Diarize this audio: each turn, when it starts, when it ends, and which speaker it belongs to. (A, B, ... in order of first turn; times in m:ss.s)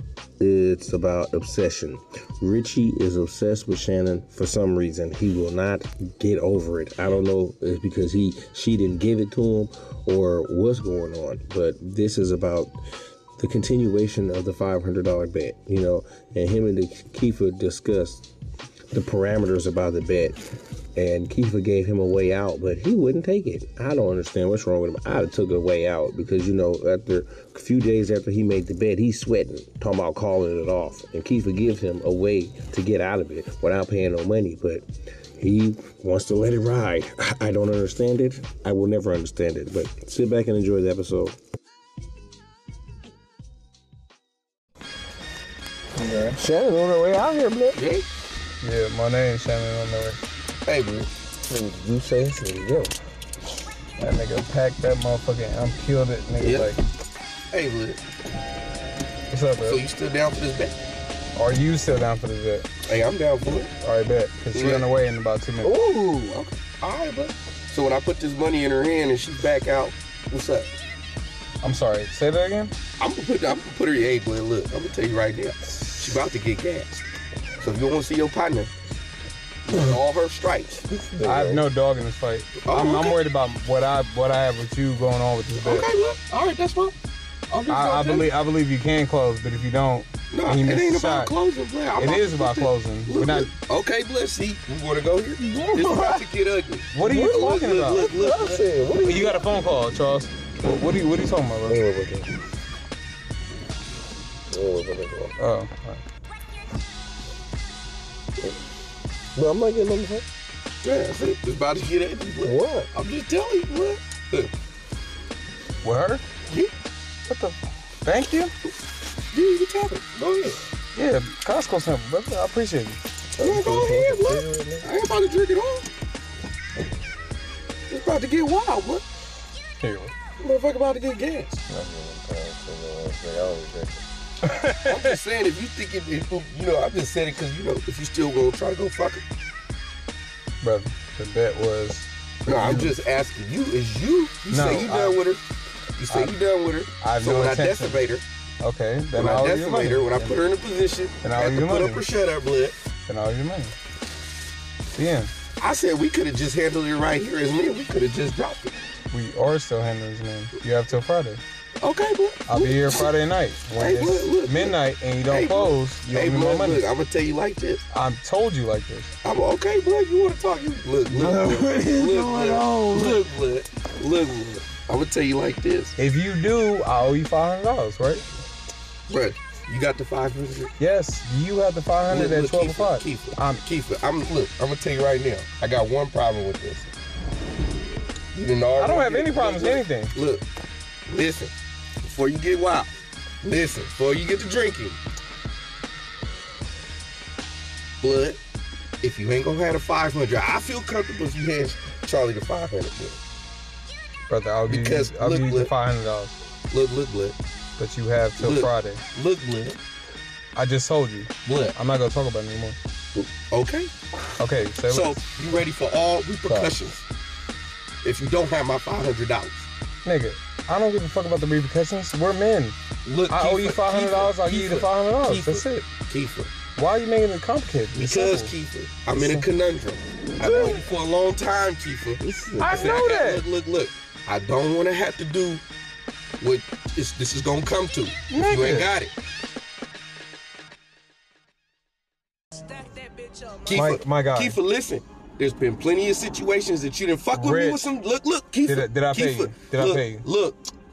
0:00.4-0:18.2 A
0:18.9-0:20.4 A
0:20.9-0:41.4 A
0:46.0-0:47.8 A
0:47.8-0:48.0 B
0:48.6-0:50.2 C
0:50.6-0:51.1 B
0:51.4-0:53.0 A
0:54.0-0:56.8 C
0:56.4-0:56.7 B
0:57.5-0:58.0 B
0:59.3-0:59.8 C
0:59.6-1:00.7 B
1:01.4-1:02.7 C
1:02.8-1:03.7 B
1:03.8-1:05.8 C
1:04.5-1:04.9 B
1:05.6-1:06.5 A
1:06.3-1:10.7 B
1:11.6-1:12.7 C
1:13.0-1:17.0 B
1:17.6-1:18.7 B
1:19.7-1:20.8 B
1:20.9-1:21.6 A
1:21.2-1:25.9 C
1:22.6-1:23.2 B
1:25.6-1:26.9 B
1:27.5-1:28.3 B
1:27.7-1:31.3 C
1:30.3-1:38.6 B
1:32.0-1:33.5 C
1:35.4-1:36.3 A
1:36.9-1:38.0 C
1:37.0-1:39.4 A
1:39.0-1:41.8 C
1:41.6-1:42.3 A
1:44.5-1:45.3 A
1:45.4-1:46.0 C
1:49.3-1:50.2 A
1:50.8-1:54.5 B
1:52.4-1:52.9 A
1:55.8-1:56.2 C
1:57.3-1:58.5 C
1:59.3-2:00.6 B
2:00.9-2:03.0 C
2:03.4-2:04.9 A
2:03.4-2:05.9 B
2:07.9-2:09.0 B
2:09.8-2:10.1 C
2:10.4-2:11.6 B
2:11.7-2:14.0 A
2:14.4-2:15.2 C
2:14.8-2:19.2 B
2:20.6-2:22.9 C
2:22.5-2:25.4 B
2:24.5-2:25.2 C
2:26.0-2:28.2 B
2:26.1-2:26.3 C
2:27.0-2:28.0 C
2:28.6-2:30.4 C
2:29.1-2:32.7 B
2:31.2-2:32.0 C
2:33.1-2:33.7 C
2:34.9-2:35.3 C
2:35.6-2:38.7 B
2:39.1-2:41.4 C
2:41.8-2:43.1 B
2:42.5-2:46.8 C
2:43.8-2:47.8 B
2:47.9-2:49.1 C
2:49.2-2:56.0 B
2:51.1-2:53.2 A
2:56.0-2:58.2 C
2:59.1-3:00.7 B
3:00.8-3:03.6 C
3:02.1-3:06.9 B
3:08.3-3:10.4 B
3:08.8-3:10.1 C
3:11.1-3:11.5 B
3:12.0-3:12.9 B
3:13.4-3:15.0 B
3:18.0-3:18.4 B
3:19.0-3:23.2 B
3:24.3-3:26.3 C
3:24.7-3:25.7 B
3:26.7-3:27.4 B
3:27.8-3:29.0 C
3:28.4-3:29.8 B
3:30.6-3:32.8 C
3:31.4-3:31.8 B
3:33.3-3:33.9 B
3:34.4-3:35.2 C
3:34.9-3:37.0 B
3:36.5-3:36.7 A
3:38.0-3:39.7 B
3:40.0-3:42.8 C
3:43.0-3:46.5 B
3:43.3-3:45.8 C
3:46.8-3:48.5 C
3:47.9-3:55.6 B
3:49.2-3:49.4 A
3:50.4-3:50.8 A
3:52.2-3:53.0 A
3:52.6-3:53.4 C
3:56.4-3:59.1 B
3:58.3-3:58.9 C
4:03.4-4:10.6 B
4:03.7-4:04.6 C
4:07.3-4:07.9 C
4:08.6-4:10.2 C